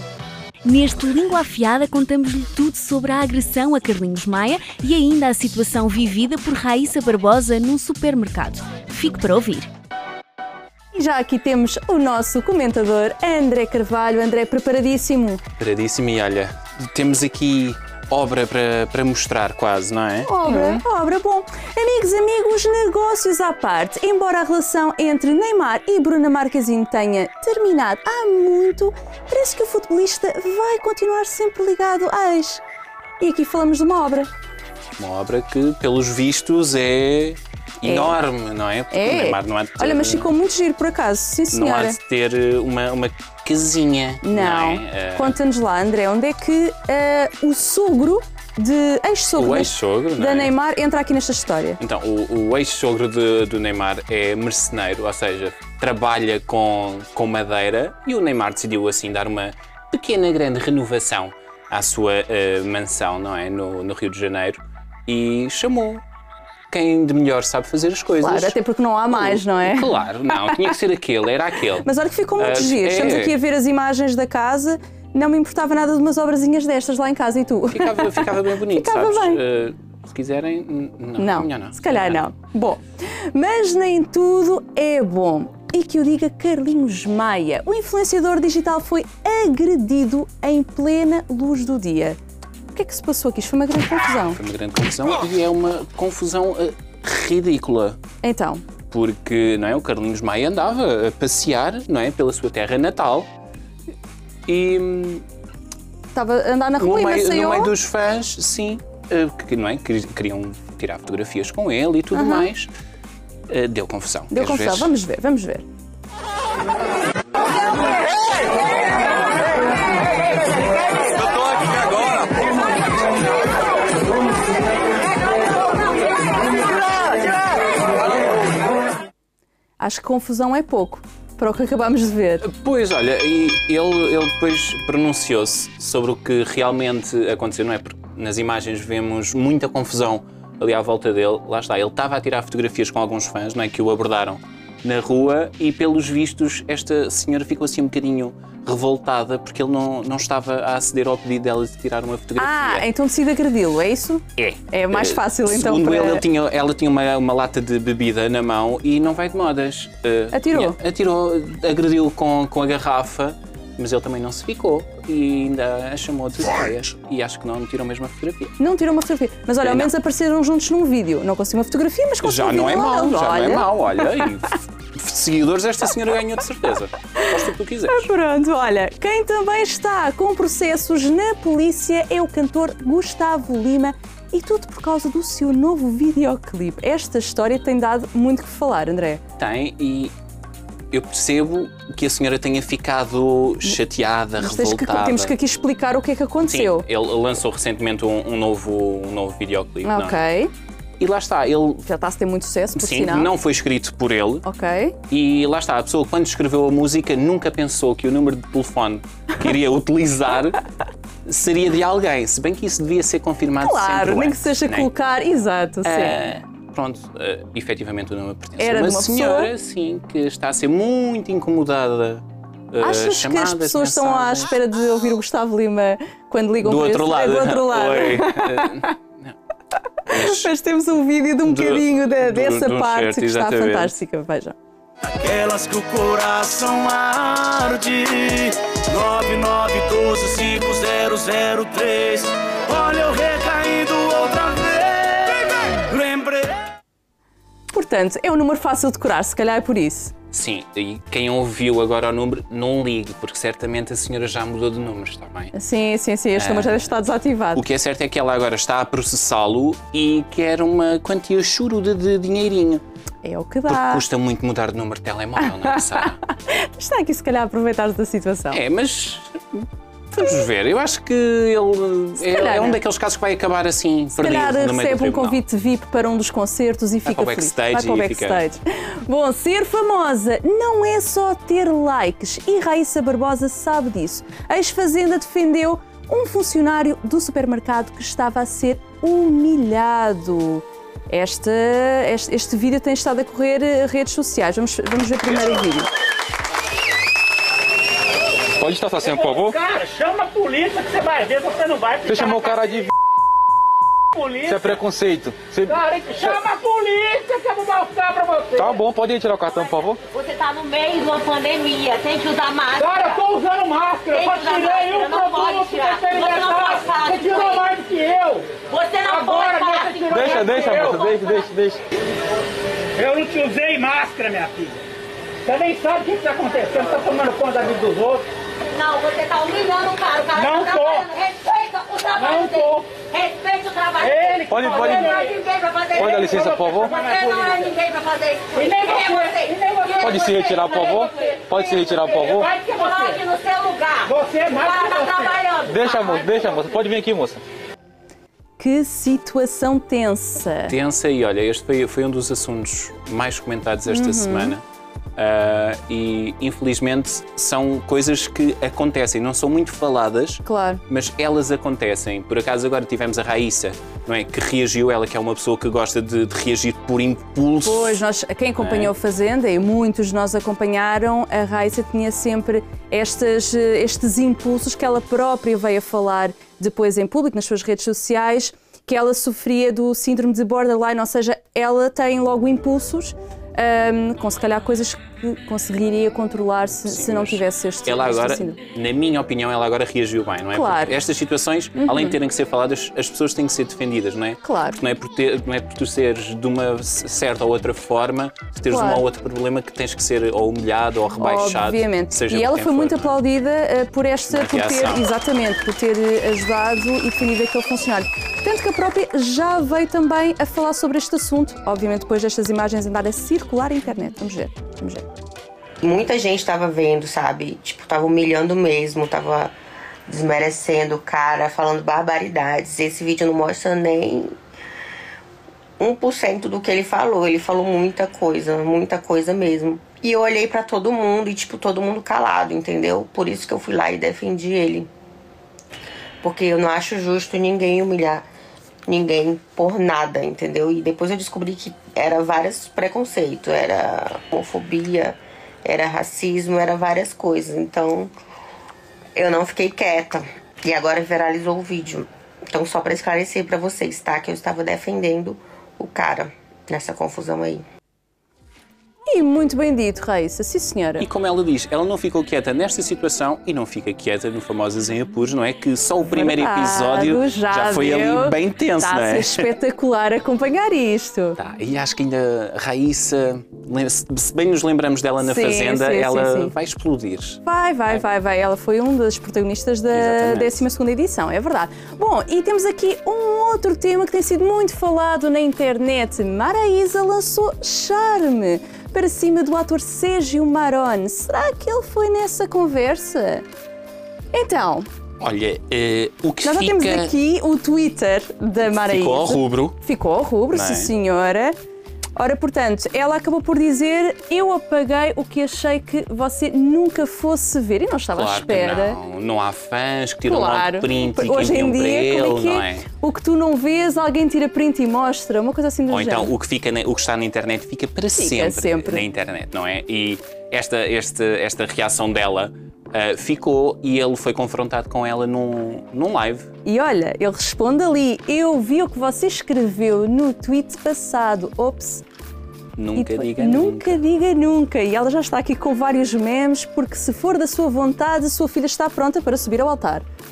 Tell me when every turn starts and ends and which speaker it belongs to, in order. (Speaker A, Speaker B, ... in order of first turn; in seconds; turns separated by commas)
Speaker A: 0.7-9.7, Speaker B: 10.9-15.4, Speaker C: 15.6-20.8, Speaker B: 20.2-32.6, Speaker B: 33.2-34.3, Speaker C: 35.0-40.3, Speaker B: 37.8-38.2, Speaker B: 38.9-42.0, Speaker C: 41.5-45.4, Speaker B: 44.2-51.8, Speaker C: 49.4-50.5, Speaker C: 51.8-66.0, Speaker C: 66.7-68.6, Speaker B: 68.2-69.9, Speaker C: 69.1-71.9, Speaker B: 71.8-79.4, Speaker C: 72.4-73.3, Speaker C: 77.7-82.3, Speaker B: 81.2-82.8, Speaker B: 83.3-92.2, Speaker B: 92.7-94.4, Speaker C: 94.3-98.0, Speaker B: 98.2-98.7, Speaker C: 98.9-103.3, Speaker C: 104.5-105.2, Speaker B: 106.1-107.7, Speaker C: 106.8-112.7, Speaker B: 112.1-112.5, Speaker C: 113.5-114.9, Speaker B: 114.3-115.7, Speaker B: 129.8-132.4, Speaker C: 132.4-152.9, Speaker B: 152.4-156.3, Speaker C: 154.4-168.6, Speaker B: 160.3-160.8, Speaker B: 168.6-173.7, Speaker C: 169.6-169.9, Speaker C: 172.2-178.1, Speaker B: 177.9-189.2, Speaker C: 189.4-190.1, Speaker C: 190.9-195.3, Speaker B: 194.4-196.8, Speaker C: 196.4-200.2, Speaker B: 199.8-200.5, Speaker C: 201.0-201.8, Speaker B: 201.9-203.3, Speaker C: 202.8-204.4, Speaker B: 204.4-205.0, Speaker C: 205.1-210.6, Speaker C: 211.3-214.9, Speaker B: 213.6-216.2, Speaker C: 215.8-224.6, Speaker B: 218.6-219.5, Speaker B: 222.8-228.9, Speaker C: 226.6-229.3, Speaker C: 230.1-230.5, Speaker B: 230.1-234.6, Speaker C: 231.4-233.9, Speaker D: 235.2-242.1, Speaker D: 242.8-243.6, Speaker D: 244.3-245.4, Speaker D: 246.0-246.4, Speaker B: 247.7-250.1, Speaker C: 250.3-255.5, Speaker B: 255.5-257.6, Speaker C: 256.3-256.9, Speaker C: 257.5-262.8, Speaker B: 263.2-264.0, Speaker C: 263.7-266.2, Speaker B: 266.5-268.6, Speaker C: 268.5-275.4, Speaker B: 272.2-272.8, Speaker B: 274.2-295.9, Speaker C: 277.1-278.5, Speaker E: 298.6-299.6, Speaker F: 299.0-302.8, Speaker E: 302.1-302.9, Speaker F: 304.1-304.8, Speaker E: 304.4-306.4, Speaker F: 305.7-308.8, Speaker E: 308.6-310.0, Speaker G: 310.1-313.2, Speaker F: 312.8-320.9, Speaker G: 314.2-317.5, Speaker G: 318.7-321.3, Speaker E: 320.1-321.8, Speaker F: 323.0-324.8, Speaker F: 325.4-328.3, Speaker G: 328.7-334.3, Speaker F: 330.4-331.1, Speaker F: 332.1-333.0, Speaker F: 334.0-335.4, Speaker E: 334.5-335.1, Speaker G: 334.9-342.1, Speaker E: 336.0-337.0, Speaker F: 336.1-337.6, Speaker F: 338.5-340.0, Speaker E: 340.0-342.5, Speaker F: 342.1-343.3, Speaker G: 343.2-344.1, Speaker F: 344.1-345.4, Speaker G: 344.6-346.3, Speaker E: 345.6-347.4, Speaker B: 348.6-350.8, Speaker C: 350.7-354.6, Speaker B: 353.9-354.6, Speaker C: 355.2-368.1, Speaker B: 360.4-360.8, Speaker B: 367.6-388.6, Speaker C: 368.6-368.9, Speaker C: 386.9-403.2, Speaker B: 390.5-391.0, Speaker B: 391.8-392.2, Speaker B: 394.4-394.8, Speaker B: 398.7-399.1, Speaker B: 401.2-415.0, Speaker C: 404.3-405.1, Speaker H: 415.8-419.5, Speaker H: 420.1-424.3, Speaker H: 425.8-434.9, Speaker H: 436.2-438.2, Speaker H: 438.9-448.1, Speaker H: 449.1-457.6, Speaker B: 459.1-461.1, Speaker C: 461.0-469.5, Speaker B: 466.1-471.4, Speaker C: 471.4-477.4, Speaker B: 475.2-476.5, Speaker B: 477.4-493.5, Speaker C: 479.9-480.6, Speaker B: 494.3-494.9, Speaker C: 495.2-497.1, Speaker B: 496.4-501.6, Speaker C: 498.7-499.8, Speaker C: 500.5-500.9, Speaker B: 502.2-509.0, Speaker C: 508.1-512.9, Speaker B: 510.3-516.3, Speaker C: 515.9-526.5, Speaker B: 518.2-519.1, Speaker B: 526.6-532.0, Speaker C: 532.8-534.0, Speaker B: 533.0-540.0